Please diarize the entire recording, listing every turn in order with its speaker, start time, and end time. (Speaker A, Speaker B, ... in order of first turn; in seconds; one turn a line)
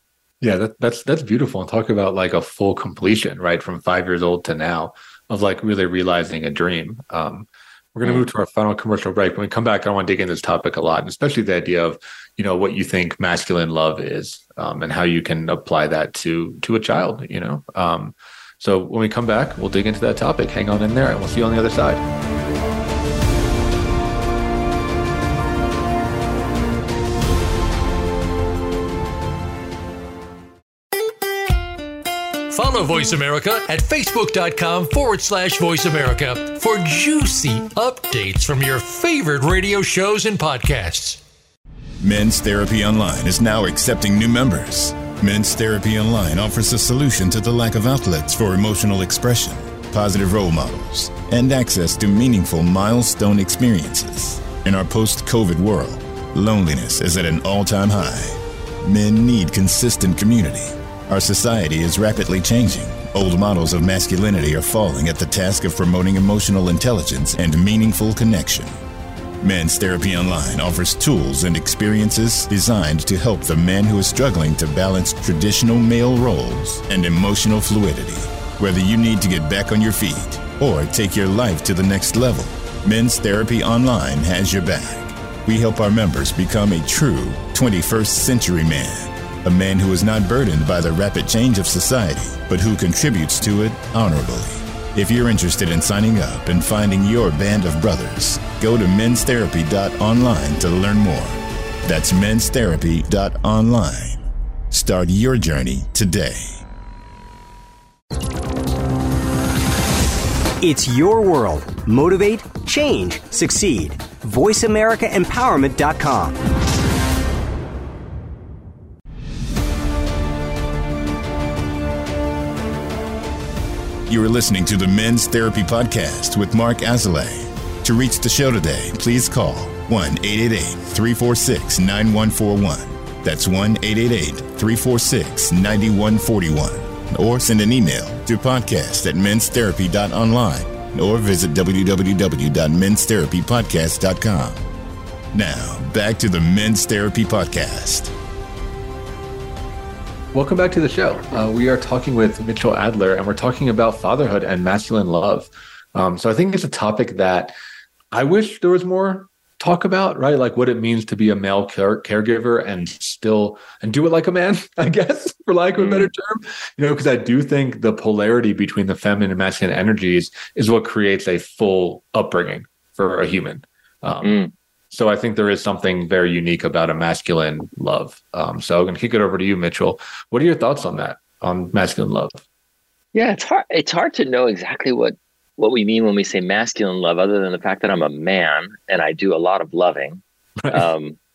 Speaker A: 0.4-22.0
Speaker B: 32.5-41.2
Speaker C: 42.0-68.7
Speaker C: 69.4-106.6
Speaker D: 110.6-116.4
Speaker C: 124.1-144.6
Speaker C: 145.3-148.1
Speaker A: 150.3-157.5
Speaker A: 158.1-174.4
Speaker E: 165.8-166.1
Speaker E: 174.2-174.5
Speaker A: 174.9-182.4
Speaker E: 183.1-191.2
Speaker A: 190.6-190.9